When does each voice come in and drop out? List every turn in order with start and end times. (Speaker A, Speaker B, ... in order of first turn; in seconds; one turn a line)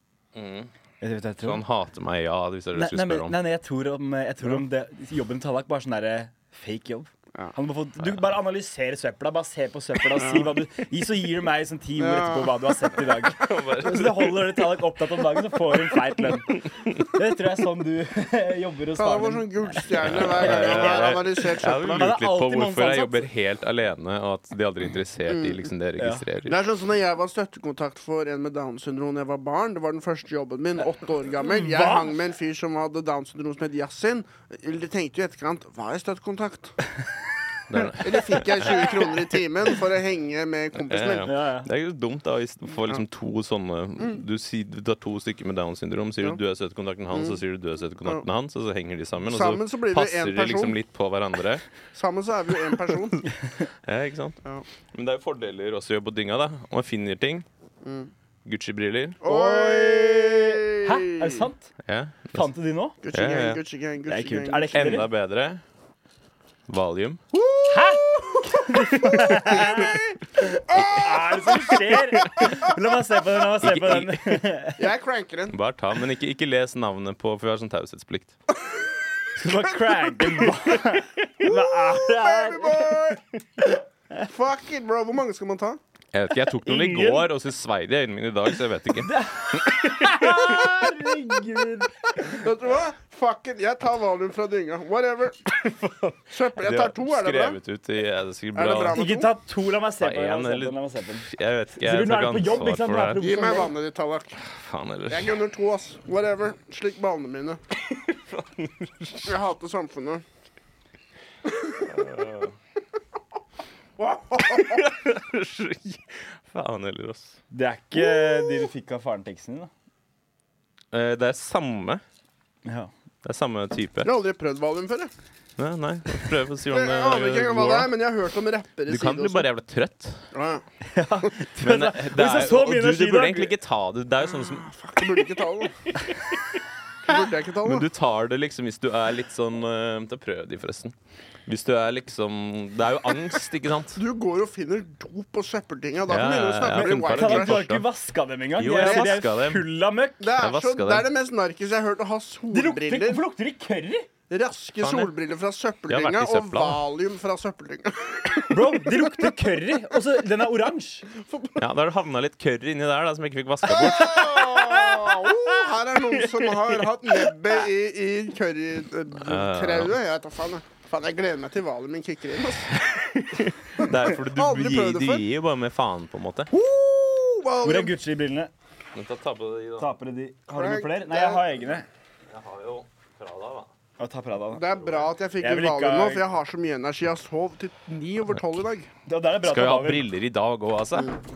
Speaker A: 0.3-0.7
Speaker B: 1.0-1.6
Speaker A: 1.4-3.4
Speaker B: 2.7-21.2
Speaker C: 10.2-10.5
Speaker C: 12.0-13.0
Speaker A: 13.3-14.7
Speaker A: 16.8-17.1
Speaker C: 18.9-22.1
Speaker A: 20.0-26.6
Speaker B: 21.8-23.3
Speaker C: 25.3-25.7
Speaker B: 26.0-26.2
Speaker C: 26.4-36.8
Speaker B: 31.4-32.1
Speaker A: 37.7-39.2
Speaker C: 38.0-41.3
Speaker A: 40.8-51.6
Speaker B: 41.2-41.7
Speaker C: 47.1-47.4
Speaker C: 49.2-50.8
Speaker C: 51.9-53.3
Speaker A: 53.8-54.4
Speaker A: 54.9-57.5
Speaker C: 57.8-58.1
Speaker A: 58.4-59.2
Speaker C: 59.2-61.5
Speaker B: 59.2-61.7
Speaker A: 61.8-62.5
Speaker B: 62.3-63.0
Speaker C: 63.0-65.0
Speaker A: 63.1-63.6
Speaker B: 64.1-65.1
Speaker A: 64.7-65.6
Speaker A: 66.7-67.2
Speaker C: 67.3-72.7
Speaker B: 67.7-74.8
Speaker A: 73.6-74.4
Speaker C: 74.8-75.5
Speaker A: 75.5-78.3
Speaker B: 79.3-83.2
Speaker C: 79.8-80.8
Speaker C: 81.4-83.2
Speaker C: 84.2-85.8
Speaker A: 86.1-90.8
Speaker B: 86.5-87.3
Speaker B: 89.0-92.4
Speaker C: 92.2-95.5
Speaker A: 95.6-99.0
Speaker C: 96.3-97.6
Speaker C: 98.5-99.3
Speaker B: 98.9-103.7
Speaker A: 100.0-103.2
Speaker C: 103.2-104.4
Speaker A: 104.4-105.4
Speaker C: 105.1-107.6
Speaker A: 107.9-109.4
Speaker C: 109.2-110.2
Speaker A: 111.8-112.5
Speaker C: 114.0-114.9
Speaker A: 114.4-117.4
Speaker B: 117.5-119.7
Speaker C: 118.1-118.7
Speaker A: 120.9-122.0
Speaker B: 122.6-122.9
Speaker A: 123.2-124.1
Speaker C: 124.0-125.1
Speaker A: 125.6-127.9
Speaker C: 126.7-129.5
Speaker A: 128.9-130.3
Speaker C: 130.3-130.6
Speaker B: 130.8-133.5
Speaker A: 131.6-134.7
Speaker C: 134.2-135.9
Speaker C: 137.0-137.8
Speaker A: 137.6-140.9
Speaker A: 141.4-144.0
Speaker C: 143.9-147.6
Speaker A: 146.1-147.8
Speaker B: 146.7-150.2
Speaker A: 148.6-149.6
Speaker C: 148.7-149.2
Speaker C: 150.2-153.2
Speaker A: 150.3-151.1
Speaker B: 152.5-154.1
Speaker C: 154.3-159.4
Speaker A: 154.8-155.1
Speaker A: 155.9-156.8
Speaker B: 158.5-161.1
Speaker C: 161.2-161.6
Speaker A: 161.6-164.3
Speaker C: 163.7-172.9
Speaker B: 164.1-165.4
Speaker A: 169.1-169.9
Speaker A: 172.8-176.5
Speaker C: 173.8-175.2
Speaker C: 176.5-177.9
Speaker B: 177.6-178.5
Speaker A: 178.9-179.9
Speaker B: 179.8-181.9
Speaker C: 180.5-181.4
Speaker A: 182.3-183.7
Speaker B: 184.0-184.9
Speaker C: 184.5-188.9
Speaker B: 185.4-186.2
Speaker B: 189.1-190.1
Speaker A: 189.4-191.2